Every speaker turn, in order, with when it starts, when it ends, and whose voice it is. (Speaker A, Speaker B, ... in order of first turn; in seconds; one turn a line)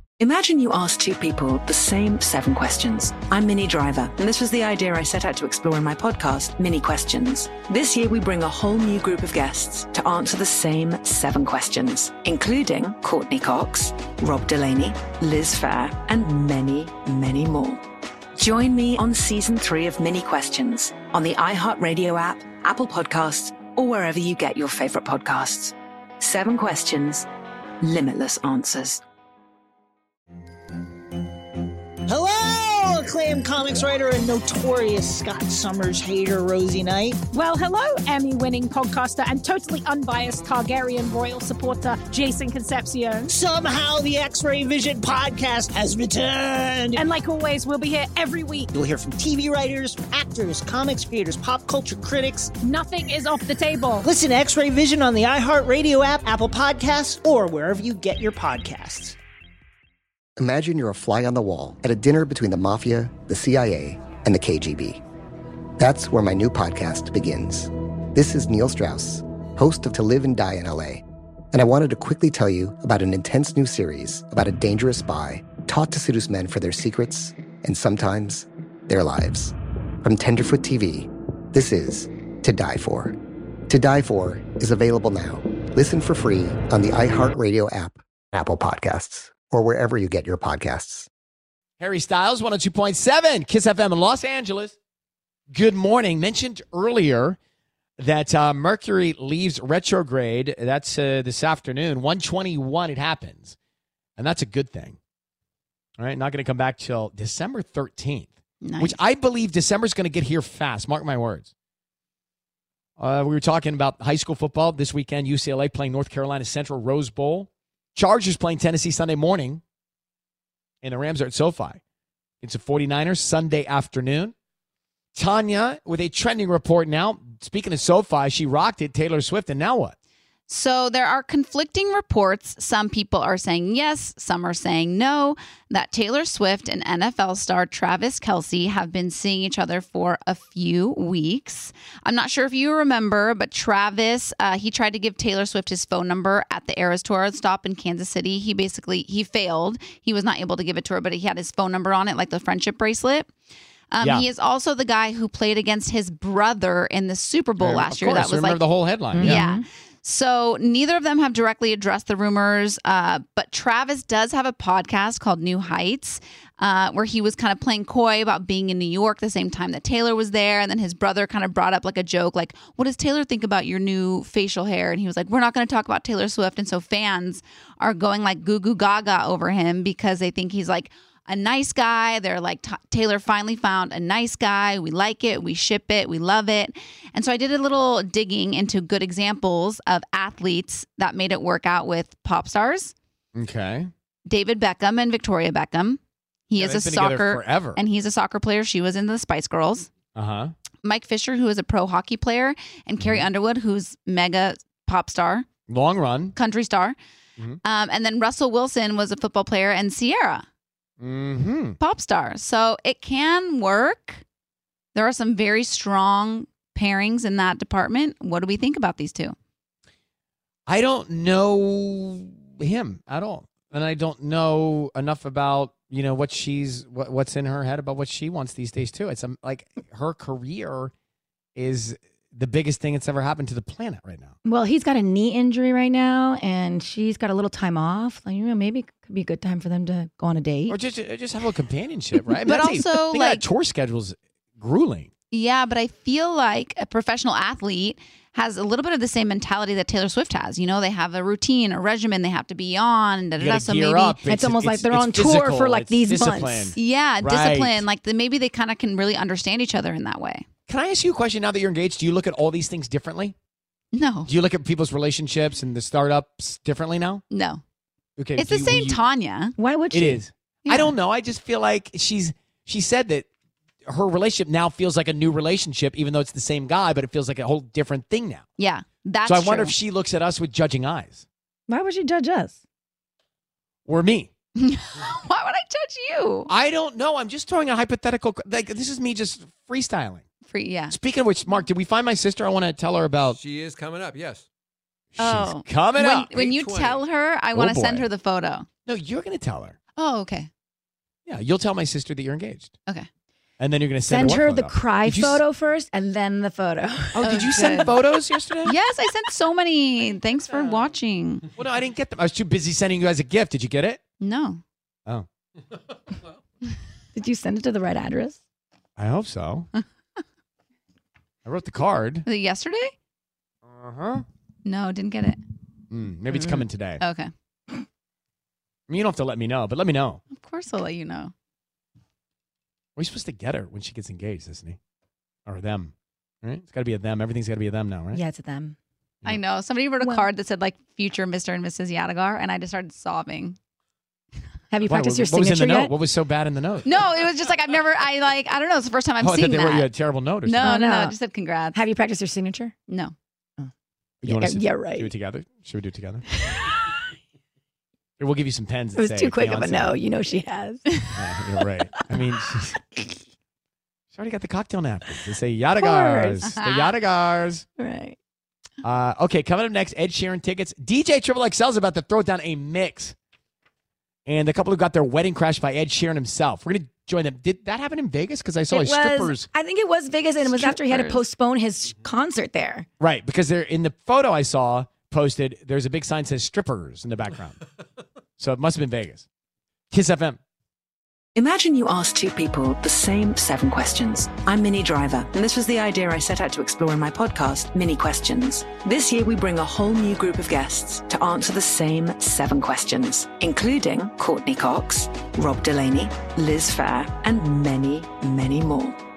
Speaker A: 0.2-17.8
Speaker A: 18.4-27.3
Speaker A: 27.8-29.0
Speaker B: 32.1-37.2
Speaker C: 37.3-43.3
Speaker B: 43.3-47.0
Speaker C: 47.0-48.7
Speaker B: 48.7-52.5
Speaker C: 52.6-54.0
Speaker B: 54.0-59.1
Speaker D: 60.4-65.0
Speaker D: 65.8-83.1
Speaker D: 83.7-91.1
Speaker E: 91.8-94.7
Speaker E: 95.5-97.4
Speaker E: 98.0-103.5
Speaker E: 104.2-105.0
Speaker E: 106.0-111.5
Speaker F: 108.6-109.0
Speaker E: 113.0-119.6
Speaker E: 120.8-121.8
Speaker E: 122.4-124.3
Speaker E: 125.2-129.9
Speaker F: 130.5-153.3
Speaker F: 153.9-192.9
Speaker E: 154.0-154.3
Speaker E: 157.6-159.4
Speaker G: 159.1-159.6
Speaker E: 193.3-193.9
Speaker F: 194.3-199.9
Speaker E: 196.6-197.8
Speaker E: 200.1-200.5
Speaker F: 200.8-205.5
Speaker E: 203.0-203.3
Speaker E: 205.7-206.3
Speaker F: 206.3-206.9
Speaker F: 207.6-210.4
Speaker E: 211.0-211.8
Speaker F: 211.8-214.2
Speaker F: 214.9-219.3
Speaker E: 220.7-230.9
Speaker E: 231.6-234.3
Speaker G: 234.4-240.8
Speaker E: 240.7-245.1
Speaker F: 242.4-243.4
Speaker F: 245.3-254.2
Speaker E: 253.4-257.9
Speaker G: 254.2-256.7
Speaker F: 256.1-260.4
Speaker E: 260.7-263.3
Speaker F: 263.9-264.3
Speaker E: 264.2-267.2
Speaker F: 267.3-267.6
Speaker E: 268.2-269.0
Speaker F: 268.4-269.6
Speaker G: 269.6-270.2
Speaker E: 269.9-273.2
Speaker F: 270.6-270.9
Speaker E: 273.9-278.4
Speaker F: 278.6-279.7
Speaker E: 279.2-281.2
Speaker G: 281.7-282.6
Speaker E: 283.9-284.3
Speaker F: 284.6-286.5
Speaker E: 286.5-290.2
Speaker F: 290.5-291.0
Speaker E: 290.9-293.4
Speaker H: 293.3-294.4
Speaker E: 295.1-296.3
Speaker F: 295.2-298.7
Speaker H: 296.3-297.1
Speaker E: 297.5-298.1
Speaker E: 298.9-299.8
Speaker F: 300.0-300.5
Speaker E: 301.2-302.7
Speaker E: 303.6-305.4
Speaker G: 304.1-307.7
Speaker E: 307.1-308.8
Speaker F: 307.2-307.9
Speaker F: 308.6-311.5
Speaker E: 311.5-314.0
Speaker F: 314.2-314.6
Speaker G: 317.1-318.4
Speaker E: 319.0-319.7
Speaker E: 321.4-322.2
Speaker F: 322.2-322.9
Speaker E: 323.6-324.2
Speaker F: 324.6-325.4
Speaker E: 325.9-327.0
Speaker F: 326.3-327.3
Speaker E: 328.9-330.2
Speaker F: 330.3-331.3
Speaker E: 332.9-334.8
Speaker E: 335.5-338.2
Speaker G: 338.1-338.8
Speaker F: 339.2-343.6
Speaker G: 340.0-340.3
Speaker G: 344.7-345.9
Speaker E: 344.8-346.9
Speaker F: 346.8-349.9
Speaker E: 349.2-350.7
Speaker F: 350.4-351.8
Speaker G: 350.6-352.8
Speaker F: 352.9-353.1
Speaker E: 354.2-356.4
Speaker G: 354.2-355.1
Speaker G: 356.4-356.8
Speaker E: 358.2-360.0
Speaker G: 358.9-361.2
Speaker E: 361.1-362.9
Speaker E: 364.1-367.6
Speaker G: 365.8-366.5
Speaker F: 366.4-366.9
Speaker G: 367.8-368.2
Speaker E: 368.8-373.1
Speaker E: 374.2-379.5
Speaker G: 378.7-382.9
Speaker F: 380.5-381.2
Speaker E: 383.0-387.6
Speaker E: 388.4-389.2
Speaker E: 389.9-390.4
Speaker A: 391.3-409.0